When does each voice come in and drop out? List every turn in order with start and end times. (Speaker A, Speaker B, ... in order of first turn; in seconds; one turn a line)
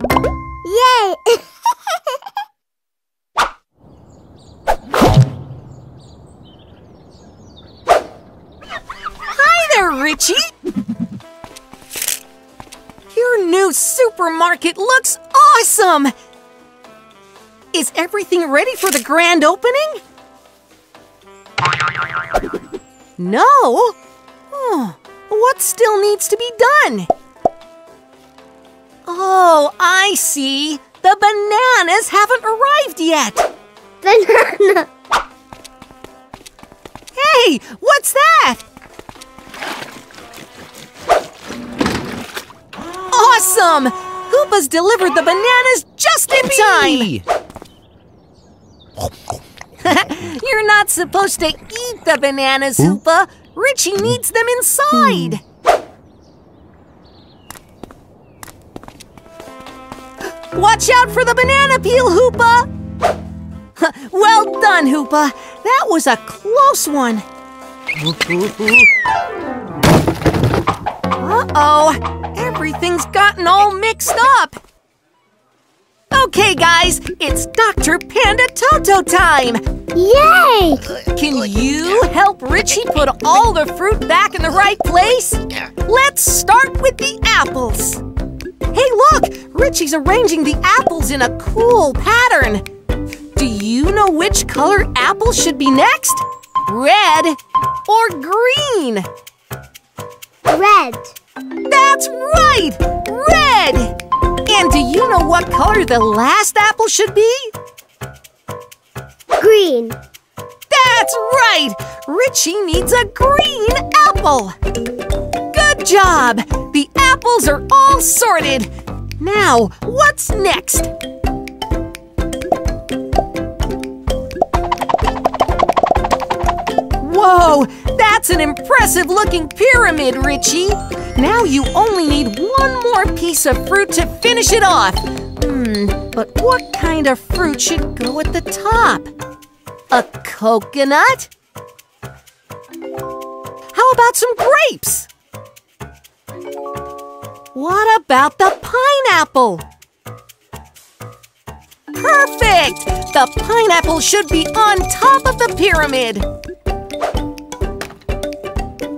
Speaker A: 0.6-2.0
Speaker B: 9.3-10.4
Speaker B: 13.1-16.1
Speaker B: 17.7-20.0
Speaker B: 23.2-23.9
Speaker B: 24.5-27.1
Speaker B: 29.1-33.5
Speaker A: 34.0-34.9
Speaker B: 37.1-38.6
Speaker B: 43.1-47.2
Speaker B: 49.8-55.4
Speaker B: 60.5-62.7
Speaker B: 63.8-67.2
Speaker B: 68.1-68.8
Speaker B: 71.2-74.6
Speaker B: 76.1-79.6
Speaker A: 79.9-80.9
Speaker B: 81.0-88.0
Speaker B: 88.7-92.6
Speaker B: 93.3-99.1
Speaker A: 100.5-101.2
Speaker B: 101.7-103.9
Speaker B: 104.5-107.5
Speaker A: 109.4-110.0
Speaker B: 110.7-114.5
Speaker B: 115.5-120.9
Speaker B: 127.0-139.1
Speaker B: 139.9-141.3
Speaker B: 143.7-145.1
Speaker B: 147.5-149.6
Speaker B: 151.9-156.2